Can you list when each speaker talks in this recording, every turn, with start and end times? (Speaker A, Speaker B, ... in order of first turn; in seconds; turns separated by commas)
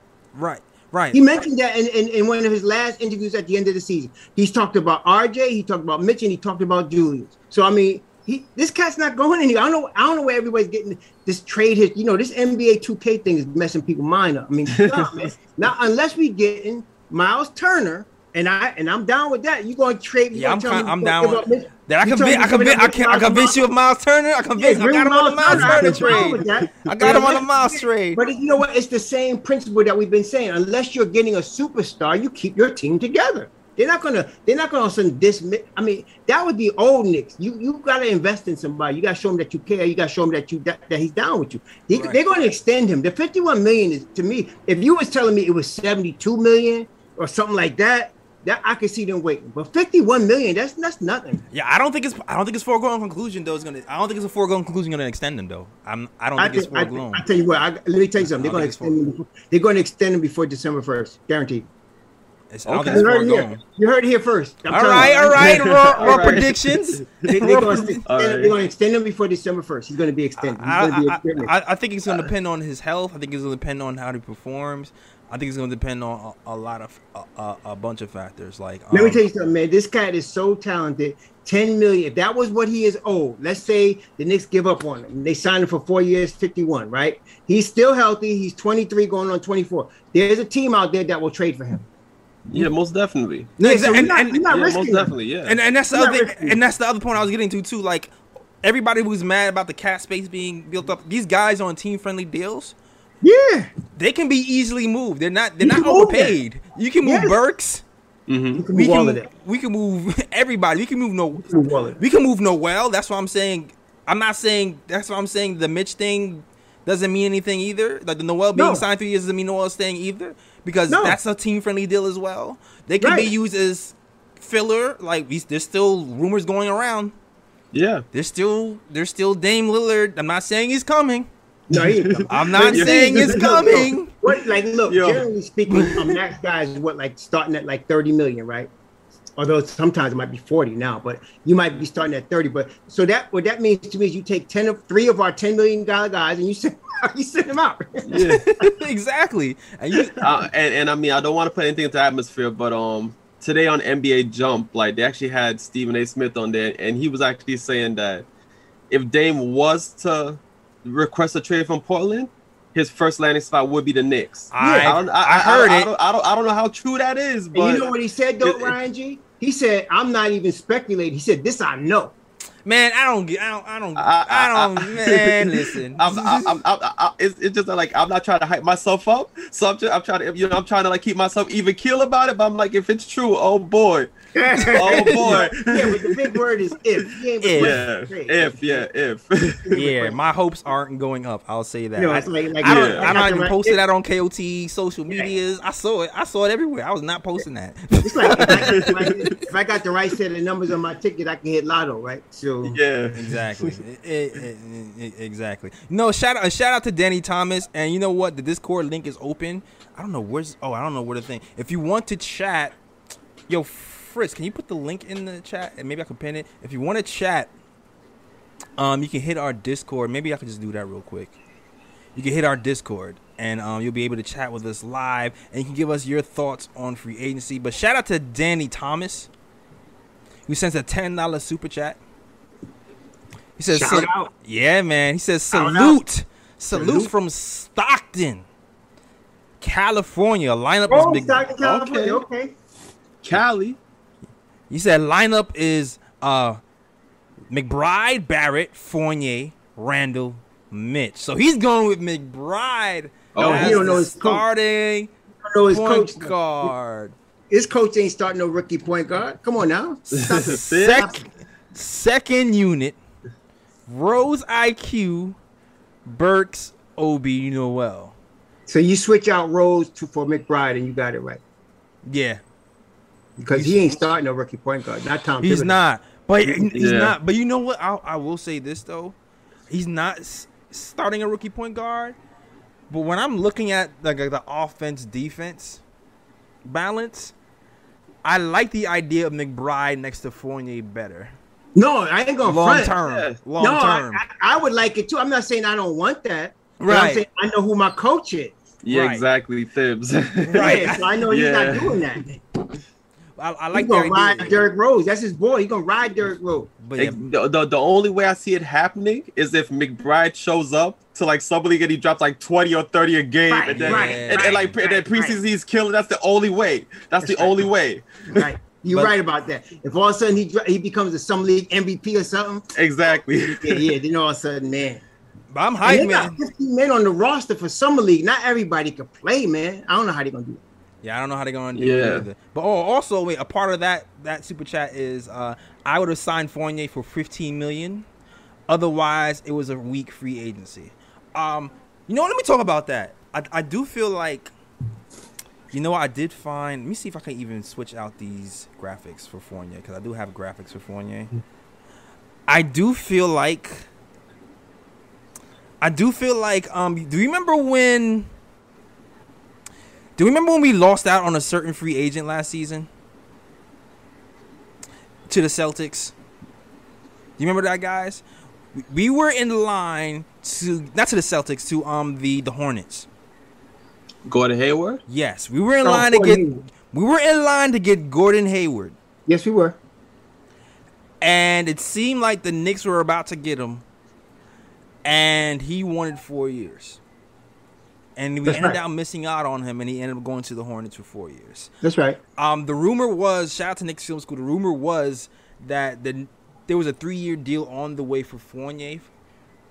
Speaker A: 0.3-1.2, Speaker B: 1.1-23.6, Speaker C: 14.8-15.2, Speaker A: 20.3-28.2, Speaker B: 24.6-51.4, Speaker C: 25.5-27.3, Speaker A: 41.9-42.2, Speaker A: 51.5-57.2, Speaker B: 56.4-61.7, Speaker A: 58.3-59.0, Speaker A: 62.5-63.6, Speaker C: 62.7-63.0, Speaker B: 62.9-66.4, Speaker A: 64.7-68.0, Speaker C: 65.0-68.5, Speaker B: 67.2-71.5, Speaker A: 70.4-79.2, Speaker B: 78.9-91.8, Speaker C: 92.5-93.5, Speaker B: 93.6-95.1, Speaker A: 93.6-94.4, Speaker C: 94.5-95.6, Speaker A: 95.4-102.7, Speaker B: 95.9-96.6, Speaker B: 103.2-103.7, Speaker A: 104.0-107.8, Speaker B: 105.6-106.4, Speaker B: 107.0-107.4, Speaker C: 108.3-108.6, Speaker B: 108.5-109.3, Speaker A: 108.7-127.1, Speaker B: 111.5-112.0, Speaker B: 118.5-118.8, Speaker B: 120.9-121.2, Speaker B: 123.0-123.3, Speaker C: 127.7-128.0, Speaker A: 128.1-131.3, Speaker B: 131.7-138.7, Speaker C: 131.7-133.9, Speaker A: 132.3-134.1, Speaker C: 134.9-135.2, Speaker B: 139.4-148.1, Speaker C: 148.1-148.4, Speaker A: 148.2-150.3, Speaker C: 150.2-158.2, Speaker C: 158.9-168.8, Speaker A: 164.5-165.9, Speaker B: 164.6-164.9, Speaker B: 167.5-172.1, Speaker A: 172.6-176.6, Speaker C: 173.9-184.1, Speaker B: 184.4-188.9, Speaker A: 184.6-185.3, Speaker C: 184.7-186.4, Speaker A: 187.4-187.8, Speaker C: 187.6-189.8, Speaker B: 189.6-190.2, Speaker A: 189.7-199.3, Speaker B: 192.0-193.8, Speaker C: 192.6-193.1, Speaker B: 198.0-202.8, Speaker C: 198.8-199.2, Speaker C: 202.6-203.8, Speaker A: 203.1-212.7, Speaker A: 213.5-217.5, Speaker A: 218.8-221.3, Speaker A: 222.1-229.3, Speaker A: 230.5-232.0, Speaker A: 233.6-238.4, Speaker B: 233.7-234.3, Speaker B: 235.5-236.0, Speaker B: 236.7-237.1, Speaker A: 239.6-241.5, Speaker B: 240.9-242.5, Speaker C: 241.6-242.2, Speaker C: 243.2-243.8, Speaker A: 244.7-246.6, Speaker A: 247.5-255.1, Speaker C: 253.3-254.0, Speaker B: 253.4-254.4, Speaker B: 255.4-256.7, Speaker A: 255.7-257.1, Speaker B: 257.5-261.3, Speaker A: 260.1-261.2, Speaker C: 260.1-261.1, Speaker A: 261.7-262.9, Speaker A: 263.9-265.4, Speaker A: 266.0-268.1, Speaker B: 268.7-271.4, Speaker A: 272.1-272.4, Speaker B: 273.4-275.8, Speaker A: 273.5-273.9, Speaker A: 275.4-279.1, Speaker C: 276.7-277.1, Speaker A: 279.7-282.1, Speaker A: 282.9-285.8, Speaker A: 286.6-287.3, Speaker A: 288.2-291.3, Speaker B: 291.8-292.9, Speaker A: 292.4-294.2, Speaker C: 293.0-293.4, Speaker B: 293.6-298.6, Speaker A: 296.8-297.2, Speaker C: 298.8-302.0, Speaker A: 298.9-299.2, Speaker B: 300.5-302.4, Speaker A: 300.5-301.1, Speaker A: 303.4-304.6, Speaker B: 303.7-306.7, Speaker A: 306.8-307.2, Speaker C: 307.0-318.1, Speaker B: 313.5-315.4, Speaker A: 313.7-314.7, Speaker B: 317.2-317.7, Speaker B: 318.4-322.7, Speaker A: 318.9-319.1, Speaker C: 322.8-323.9, Speaker B: 323.4-325.0, Speaker A: 325.5-326.4, Speaker B: 325.8-330.6, Speaker A: 331.0-338.1, Speaker C: 331.7-332.2, Speaker A: 338.7-344.5, Speaker A: 345.7-351.3, Speaker A: 352.5-353.9, Speaker A: 355.8-358.3, Speaker A: 360.2-362.9, Speaker A: 365.3-366.1, Speaker A: 367.4-368.2, Speaker A: 368.7-373.1, Speaker C: 374.2-375.0, Speaker A: 375.1-378.9, Speaker B: 375.8-376.6, Speaker B: 379.3-379.8, Speaker A: 381.2-383.8, Speaker A: 385.0-387.0, Speaker A: 388.2-391.7, Speaker B: 388.4-388.8, Speaker B: 391.8-392.2, Speaker A: 392.4-399.1